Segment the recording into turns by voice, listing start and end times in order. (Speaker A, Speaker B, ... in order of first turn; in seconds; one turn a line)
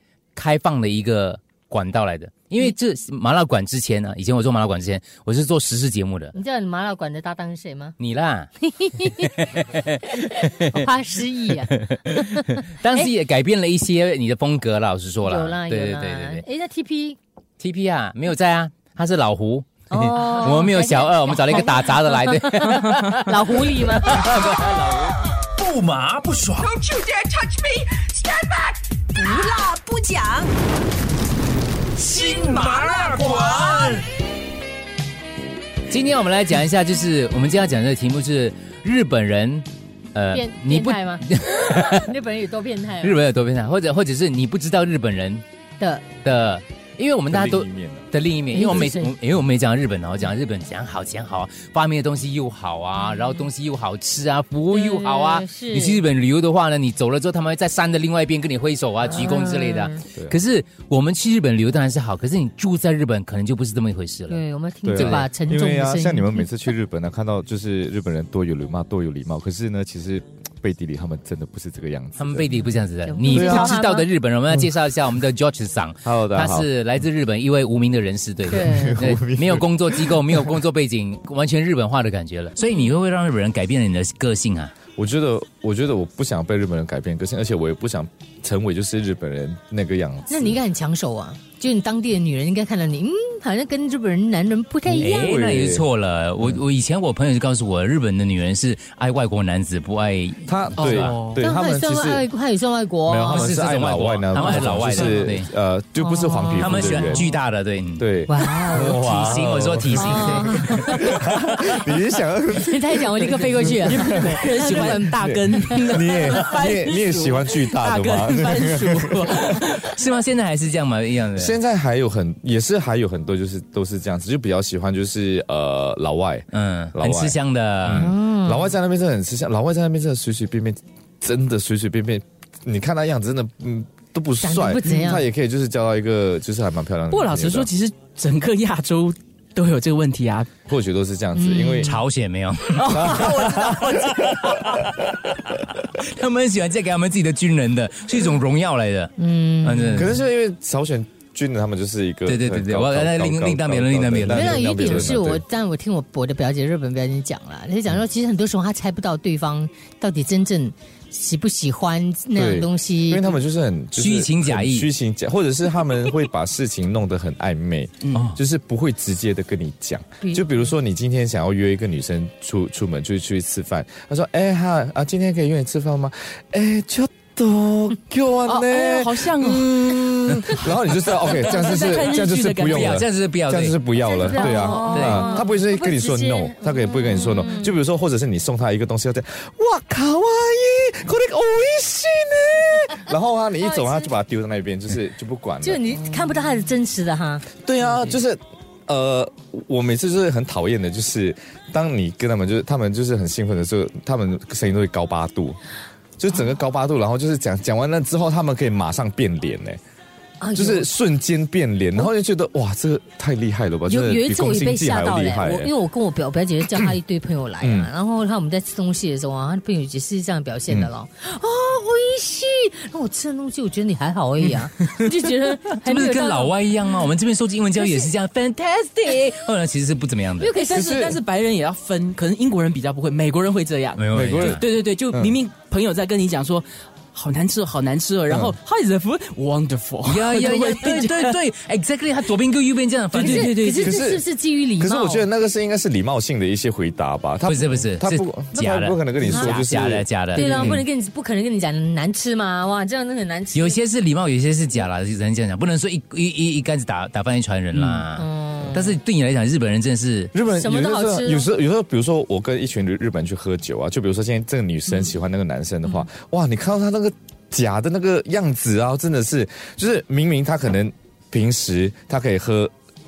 Speaker A: 0.3-6.3
Speaker B: 6.3-8.0
Speaker A: 8.0-8.5
Speaker B: 8.6-9.6
Speaker A: 9.4-10.9
Speaker B: 10.2-13.1
Speaker A: 11.7-16.4
Speaker B: 15.2-17.2
Speaker A: 17.6-25.1
Speaker B: 19.9-24.9
Speaker C: 25.6-26.8
Speaker D: 26.8-30.5
Speaker C: 32.0-34.1
Speaker D: 33.5-33.7
Speaker A: 35.9-42.0
Speaker B: 40.3-43.2
Speaker A: 43.0-45.4
Speaker B: 45.8-46.0
Speaker A: 46.2-64.4
Speaker E: 47.3-48.1
Speaker B: 48.5-49.1
Speaker B: 53.0-53.5
Speaker B: 54.7-56.0
Speaker B: 59.1-60.0
Speaker B: 64.3-66.5
Speaker E: 64.8-72.5
Speaker A: 64.9-65.3
Speaker A: 72.2-84.7
Speaker B: 73.0-74.1
Speaker E: 73.3-73.7
Speaker E: 76.0-76.7
Speaker E: 78.5-80.5
Speaker B: 78.5-79.0
Speaker E: 85.0-90.6
Speaker B: 90.3-95.4
Speaker A: 94.9-101.2
Speaker E: 94.9-95.9
Speaker E: 100.5-102.3
Speaker F: 100.8-101.4
Speaker B: 101.4-103.5
Speaker E: 103.0-107.3
Speaker A: 103.3-105.5
Speaker F: 104.4-105.2
Speaker B: 106.0-107.2
Speaker A: 106.6-108.0
Speaker E: 108.0-119.3
Speaker B: 108.3-109.0
Speaker A: 108.7-110.7
Speaker B: 109.9-111.9
Speaker B: 112.6-116.2
Speaker F: 113.8-120.0
Speaker A: 119.6-121.5
Speaker E: 121.3-137.7
Speaker A: 126.5-128.1
Speaker B: 127.9-128.7
Speaker B: 134.4-135.2
Speaker F: 134.8-135.2
Speaker F: 137.1-140.5
Speaker E: 140.7-142.0
Speaker B: 141.3-141.9
Speaker A: 141.8-143.5
Speaker F: 142.7-144.7
Speaker E: 142.9-144.2
Speaker A: 144.4-150.2
Speaker B: 149.2-150.1
Speaker E: 149.9-155.4
Speaker A: 152.2-155.2
Speaker B: 154.3-163.4
Speaker E: 162.3-195.8
Speaker A: 163.9-164.9
Speaker F: 168.0-168.3
Speaker F: 178.4-183.0
Speaker A: 182.6-183.8
Speaker B: 183.9-187.7
Speaker F: 184.3-185.2
Speaker A: 184.9-185.4
Speaker B: 193.6-194.1
Speaker B: 195.6-197.4
Speaker E: 197.6-205.6
Speaker E: 206.2-209.8
Speaker B: 210.4-210.9
Speaker E: 210.5-215.7
Speaker B: 213.9-226.5
Speaker E: 217.6-217.9
Speaker A: 225.8-230.5
Speaker B: 227.8-228.1
Speaker B: 230.4-230.9
Speaker F: 230.5-241.4
Speaker E: 230.7-231.2
Speaker A: 234.0-234.6
Speaker E: 234.1-235.3
Speaker E: 238.3-238.6
Speaker A: 240.1-243.6
Speaker F: 243.1-244.0
Speaker B: 243.1-245.3
Speaker E: 243.8-250.1
Speaker A: 247.4-250.8
Speaker B: 249.2-249.6
Speaker F: 249.3-249.7
Speaker B: 250.3-253.8
Speaker F: 250.4-250.7
Speaker A: 253.5-260.3
Speaker B: 258.1-258.9
Speaker E: 260.3-272.7
Speaker B: 260.5-261.5